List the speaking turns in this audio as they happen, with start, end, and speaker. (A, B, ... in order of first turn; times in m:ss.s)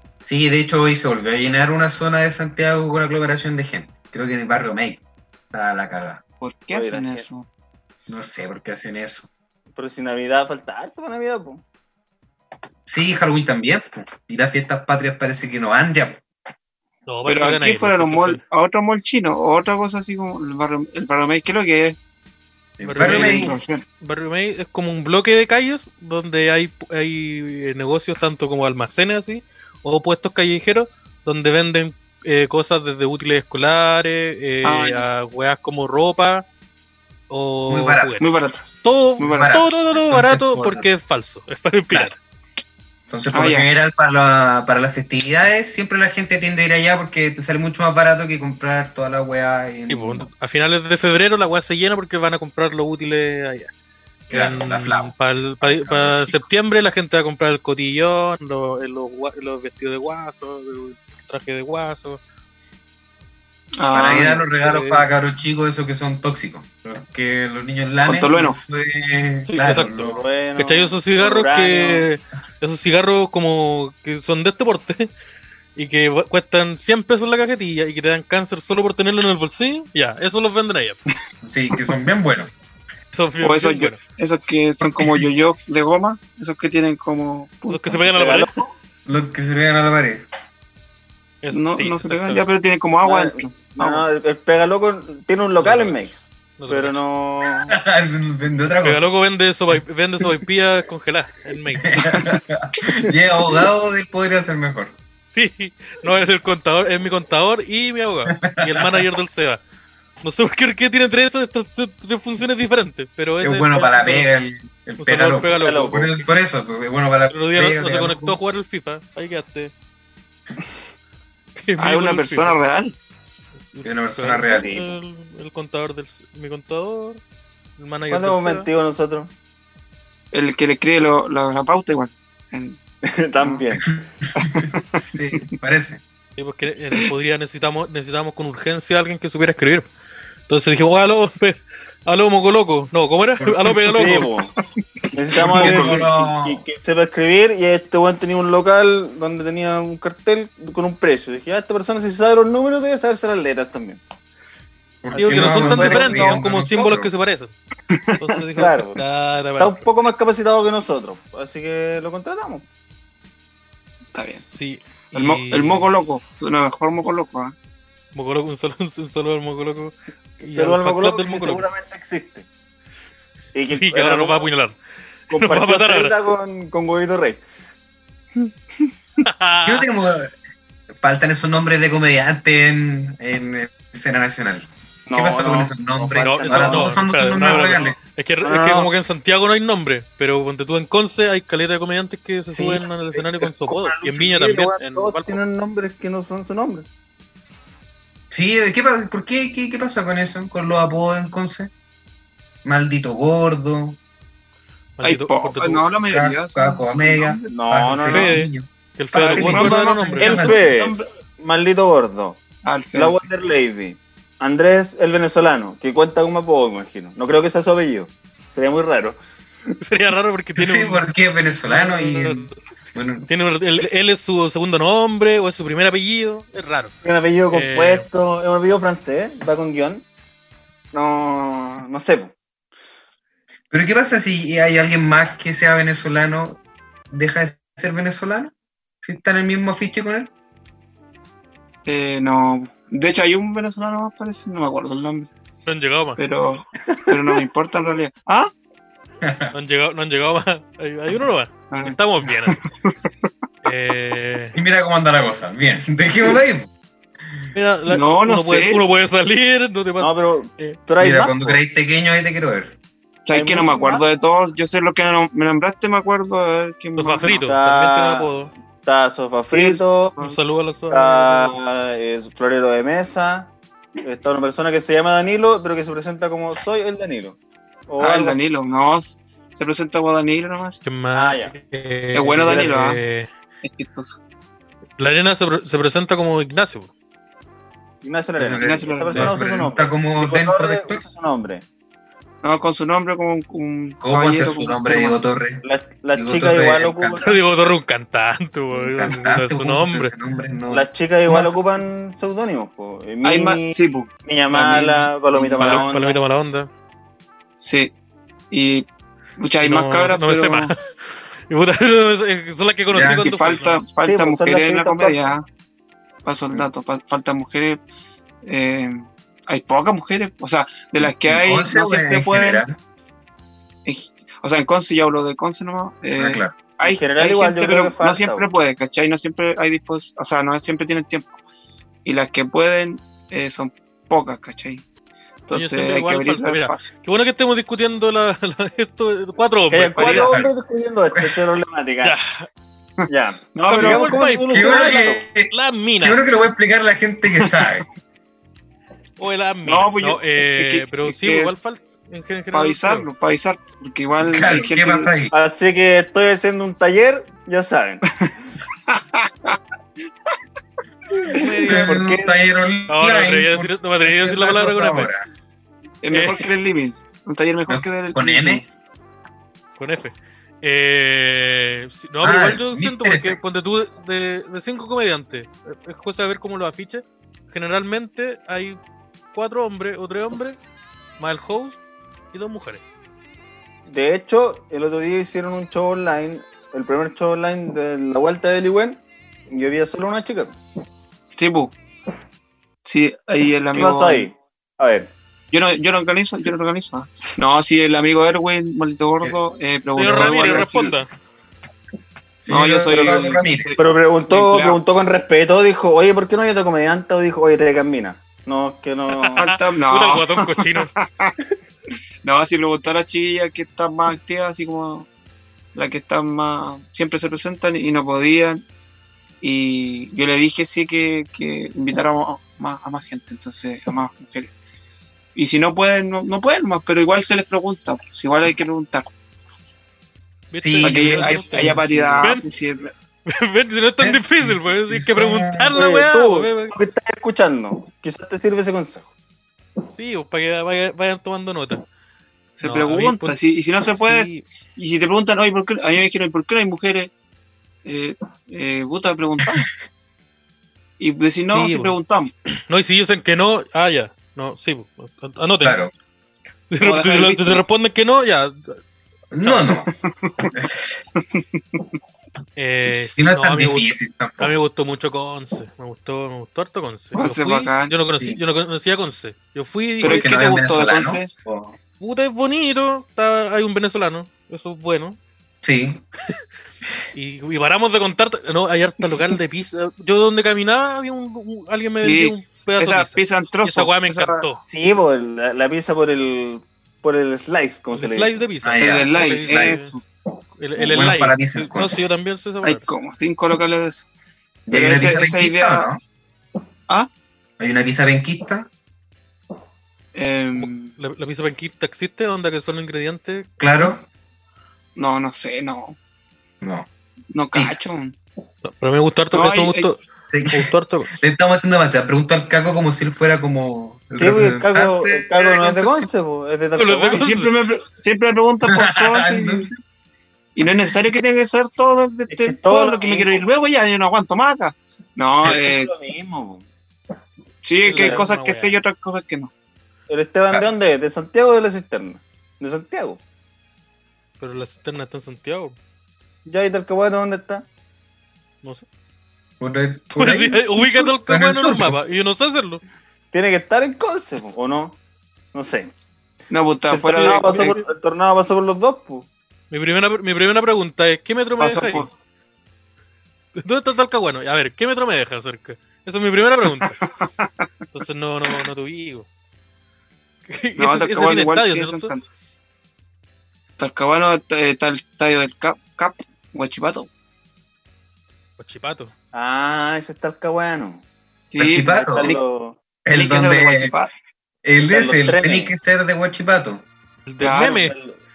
0:00.2-0:06.2 A
0:06.4-0:07.4 B
0:06.7-0:07.3 C
0:08.1-0:09.3 A
0:09.7-0:11.6 C
0:12.8-0:16.2 A
0:17.1-0:18.4 D
0:17.2-0:22.0 B
0:22.8-0:23.5 A
0:22.8-0:36.4 D
0:23.0-0:23.8 B
0:34.6-0:35.0 B
0:37.3-0:42.2 D
0:37.7-0:38.2 A
0:38.2-0:38.6 B
0:39.2-0:39.6 B
0:39.2-0:40.9 A
0:43.1-0:50.3 A
0:43.3-0:43.7 B
0:49.9-0:53.7 D
0:54.3-1:02.2 D
0:54.3-0:56.4 A
1:03.8-1:04.4 B
1:03.9-1:10.2 A
1:08.0-1:08.6 B
1:09.4-1:15.1 D
1:10.0-1:12.1 C
1:15.8-1:21.0 D
1:21.4-1:22.5 A
1:23.1-1:24.0 D
1:23.4-1:28.1 B
1:24.8-1:25.3 A
1:27.7-1:28.5 D
1:28.1-1:28.7 C
1:29.0-1:30.2 A
1:31.4-1:32.4 D
1:31.5-1:34.0 B
1:33.0-1:36.2 C
1:35.6-1:36.0 D
1:36.6-1:37.0 D
1:36.7-1:37.8 C
1:37.6-1:39.1 A
1:38.8-1:42.0 D
1:41.8-1:45.0 A
1:45.3-1:49.6 D
1:48.4-1:49.0 A
1:50.2-1:54.3 D
1:53.4-1:58.4 A
1:55.0-1:56.0 D
1:55.6-1:56.2 C
1:57.3-1:59.7 D
2:01.6-2:02.6 D
2:01.8-2:02.9 B
2:03.7-2:07.2 D
2:03.8-2:04.8 A
2:04.4-2:04.9 C
2:07.8-2:08.7 D
2:08.1-2:09.3 C
2:10.3-2:12.8 B
2:13.0-2:14.0 C
2:13.8-2:16.0 A
2:16.4-2:19.9 D
2:20.5-2:24.3 D
2:23.4-2:23.7 A
2:23.9-2:24.5 C
2:25.1-2:34.0 C
2:25.3-2:26.6 A
2:25.5-2:25.9 D
2:35.0-2:37.1 A
2:35.1-2:36.4 C
2:35.1-2:37.5 D
2:37.9-2:38.3 B
2:38.2-2:39.8 D
2:38.6-2:39.0 C
2:39.6-2:42.6 C
2:44.1-2:44.4 B
2:44.5-2:45.9 D
2:45.1-2:47.5 B
2:48.1-2:51.6 D
2:50.5-2:52.4 C
2:53.5-2:54.5 C
2:53.7-2:54.8 D
2:55.3-2:56.2 D
2:55.3-2:57.4 C
2:59.2-2:59.8 D
2:59.6-3:00.3 A
3:01.0-3:08.0 A
3:05.1-3:07.0 C
3:06.2-3:15.4 D
3:08.4-3:08.9 C
3:12.5-3:16.9 C
3:18.3-3:21.7 A
3:22.6-3:24.0 A
3:25.0-3:25.9 D
3:25.0-3:27.6 B
3:26.1-3:30.7 A
3:27.5-3:28.3 C
3:28.0-3:30.6 D
3:29.1-3:31.0 B
3:30.2-3:32.4 C
3:32.6-3:33.2 B
3:32.9-3:39.2 C
3:39.8-3:41.0 D
3:40.6-3:43.3 A
3:41.6-3:42.6 D
3:43.3-3:46.9 D
3:47.0-3:50.0 C
3:47.5-3:48.0 D
3:50.9-3:52.3 C
3:53.7-3:56.6 A
3:57.1-4:00.3 A
4:01.8-4:05.3 B
4:05.6-4:06.2 D
4:06.2-4:08.5 B
4:07.0-4:07.4 C
4:09.2-4:09.5 A
4:09.5-4:12.6 D
4:11.7-4:12.9 B
4:13.6-4:14.6 D
4:14.5-4:16.7 A
4:17.5-4:20.8 D
4:17.9-4:18.8 B
4:20.0-4:21.6 C
4:21.0-4:22.7 A
4:23.2-4:27.4 B
4:23.3-4:24.0 C
4:27.0-4:28.5 D
4:27.4-4:28.3 C
4:28.8-4:30.3 C
4:29.6-4:31.6 D
4:30.9-4:33.5 C
4:34.0-4:37.4 C
4:37.9-4:38.4 C
4:38.0-4:40.8 B
4:40.8-4:43.3 D
4:41.1-4:41.5 C
4:42.1-4:43.0 B
4:43.6-4:44.2 B
4:45.0-4:46.9 D
4:48.0-4:51.6 C
4:48.4-4:51.0 A
4:48.6-4:49.4 B
4:52.4-4:55.2 B
4:54.0-4:57.3 A
4:55.6-4:57.4 C
4:57.2-5:00.1 D
4:58.8-5:01.5 A
5:00.7-5:06.2 C
5:03.2-5:04.8 B
5:04.5-5:05.0 D
5:05.3-5:05.8 B
5:05.6-5:06.7 D
5:07.6-5:07.9 B
5:08.5-5:08.9 B
5:09.4-5:10.7 B
5:09.6-5:13.8 D
5:12.9-5:13.3 A
5:13.0-5:15.4 B
5:14.0-5:15.3 C
5:16.2-5:17.8 B
5:18.4-5:22.6 B
5:21.0-5:22.8 A
5:23.8-5:31.4 B
5:26.2-5:26.6 A
5:26.8-5:28.5 C
5:32.0-5:34.8 B
5:35.5-5:36.9 B
5:35.5-5:40.3 D
5:39.7-5:42.2 C
5:40.0-5:40.3 B
5:40.3-5:40.5 A
5:41.1-5:41.4 A
5:42.0-5:42.5 D
5:43.0-5:44.2 B
5:43.1-5:45.2 C
5:43.6-5:46.2 D
5:44.5-5:47.9 A
5:47.4-5:47.6 B
5:49.2-5:53.1 D
5:49.6-5:51.5 B
5:52.5-5:55.1 B
5:54.2-5:55.3 A
5:55.3-5:58.1 C
5:58.9-5:59.6 B
6:01.2-6:02.3 C
6:01.3-6:02.1 D
6:01.6-6:05.2 A
6:02.9-6:05.1 D
6:06.0-6:08.6 B
6:06.1-6:06.4 D
6:07.7-6:08.6 A
6:09.8-6:18.8 D
6:12.2-6:13.4 A
6:19.3-6:20.6 D
6:21.2-6:21.8 D
6:22.3-6:22.8 D
6:23.9-6:30.6 C
6:31.4-6:31.7 B
6:32.8-6:34.3 B
6:33.7-6:35.1 C
6:35.5-6:41.0 B
6:40.0-6:41.1 D
6:42.4-6:43.7 A
6:42.5-6:44.8 B
6:43.8-6:49.5 C
6:49.2-6:50.9 D
6:49.4-6:51.4 B
6:52.2-6:55.1 B
6:55.7-6:58.6 B
6:59.4-7:04.5 B
7:05.3-7:09.1 B
7:10.5-7:12.4 D
7:10.6-7:12.3 A
7:10.8-7:12.9 B
7:13.2-7:16.7 D
7:14.0-7:15.8 A
7:15.7-7:19.1 C
7:19.9-7:21.8 D
7:22.6-7:27.1 B
7:22.6-7:23.4 D
7:23.9-7:24.4 D
7:27.8-7:29.7 B
7:31.0-7:32.3 B
7:31.5-7:32.0 D
7:32.5-7:35.8 D
7:35.6-7:35.9 A
7:36.7-7:38.8 D
7:36.8-7:37.6 B
7:39.3-7:39.9 A
7:39.4-7:39.7 D
7:40.2-7:40.5 B
7:40.5-7:41.0 A
7:41.2-7:41.8 B
7:42.6-7:50.3 D
7:43.2-7:44.5 A
7:47.1-7:47.9 B
7:50.0-7:51.8 A
7:50.0-7:51.3 B
7:52.0-7:55.2 D
7:55.6-7:56.0 A
7:57.1-8:04.6 D
8:02.0-8:04.4 B
8:04.7-8:08.4 C
8:07.9-8:09.9 D
8:08.6-8:09.8 A
8:08.8-8:10.0 B
8:10.6-8:12.8 D
8:10.8-8:12.0 A
8:12.6-8:14.1 B
8:14.7-8:16.0 A
8:14.7-8:15.9 B
8:17.6-8:18.7 A
8:20.1-8:20.9 B
8:20.6-8:23.9 D
8:23.6-8:24.0 A
8:25.0-8:26.0 B
8:26.6-8:26.9 A
8:27.3-8:28.2 B
8:27.5-8:27.8 A
8:28.6-8:30.0 D
8:29.3-8:29.9 B
8:30.3-8:36.1 A
8:30.5-8:31.2 D
8:34.2-8:37.2 C
8:36.8-8:37.5 D
8:37.2-8:39.7 B
8:38.7-8:39.8 A
8:40.6-8:45.9 B
8:42.3-8:43.5 C
8:45.4-8:46.6 C
8:47.6-8:49.5 B
8:47.8-8:48.8 D
8:47.9-8:48.2 C
8:50.1-8:53.2 C
8:54.4-8:55.8 D
8:56.4-8:57.6 C
8:59.6-9:01.9 A
9:00.2-9:02.8 D
9:03.3-9:05.0 C
9:05.5-9:05.9 C
9:06.5-9:07.7 B
9:06.9-9:09.3 C
9:07.0-9:07.9 D
9:09.7-9:12.1 D
9:11.6-9:12.1 B
9:13.6-9:17.0 D
9:16.8-9:17.5 B
9:17.9-9:19.3 D
9:20.5-9:22.1 D
9:20.8-9:22.2 B
9:23.8-9:27.1 B
9:28.6-9:29.1 D
9:29.3-9:31.0 C
9:31.5-9:32.4 B
9:31.6-9:32.3 A
9:31.8-9:32.8 C
9:33.0-9:33.9 A
9:33.1-9:34.1 B
9:34.6-9:36.8 A
9:34.8-9:35.7 C
9:37.3-9:37.9 D
9:37.4-9:37.8 B
9:37.7-9:38.2 C